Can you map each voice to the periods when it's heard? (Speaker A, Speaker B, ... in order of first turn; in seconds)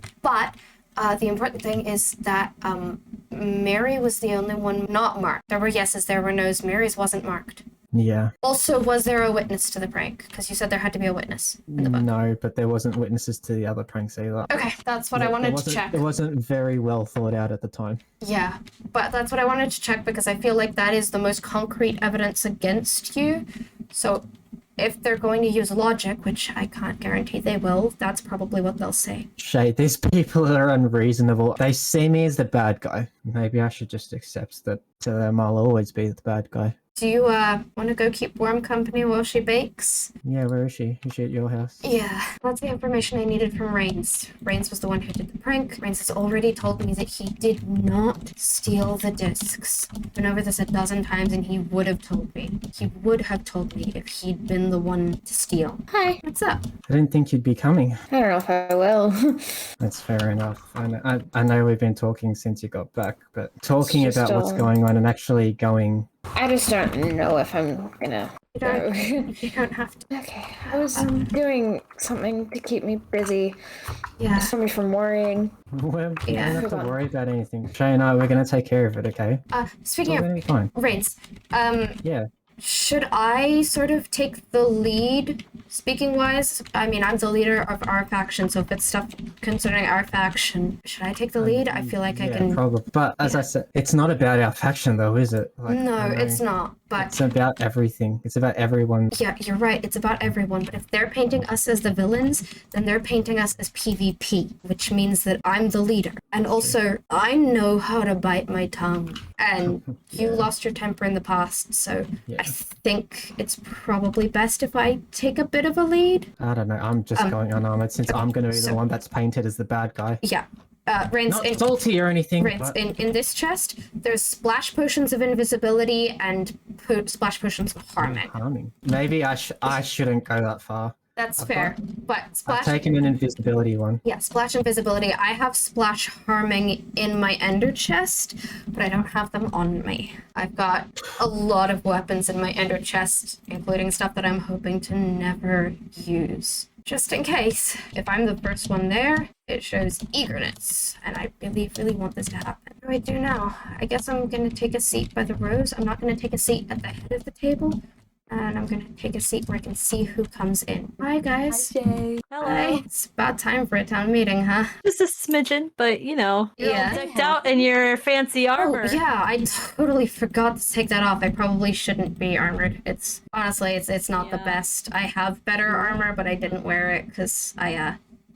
Speaker A: 0.2-7.6, 8.4-12.1, 14.5-16.1, 18.2-24.2, 24.8-29.3, 37.0-40.1, 41.8-56.6, 68.5-70.0, 70.7-71.3, 74.2-74.5, 76.3-76.7, 79.5-82.0, 82.6-92.6, 93.2-93.5, 95.7-97.2, 99.1-116.3, 118.1-118.8, 120.2-121.7, 122.4-128.3, 131.2-133.1, 134.0-157.8, 158.3-161.8, 162.4-164.7, 166.6-167.1, 168.6-178.0
Speaker B: 7.9-8.3, 11.7-18.0, 29.4-36.8, 40.2-41.8, 56.9-58.0, 59.8-66.1, 75.8-79.4, 80.1-80.7, 91.4-96.4, 97.0-99.1, 106.5-106.8, 109.7-110.5, 112.3-112.5, 116.4-120.2, 121.3-122.8, 128.0-131.8, 132.5-134.0
Speaker C: 58.1-59.4, 63.8-64.7, 66.4-69.4, 70.1-73.6, 74.3-75.5, 76.3-77.0, 161.5-162.2, 166.6-167.7, 175.7-176.0
Speaker D: 162.3-162.8, 164.8-169.0, 174.2-174.6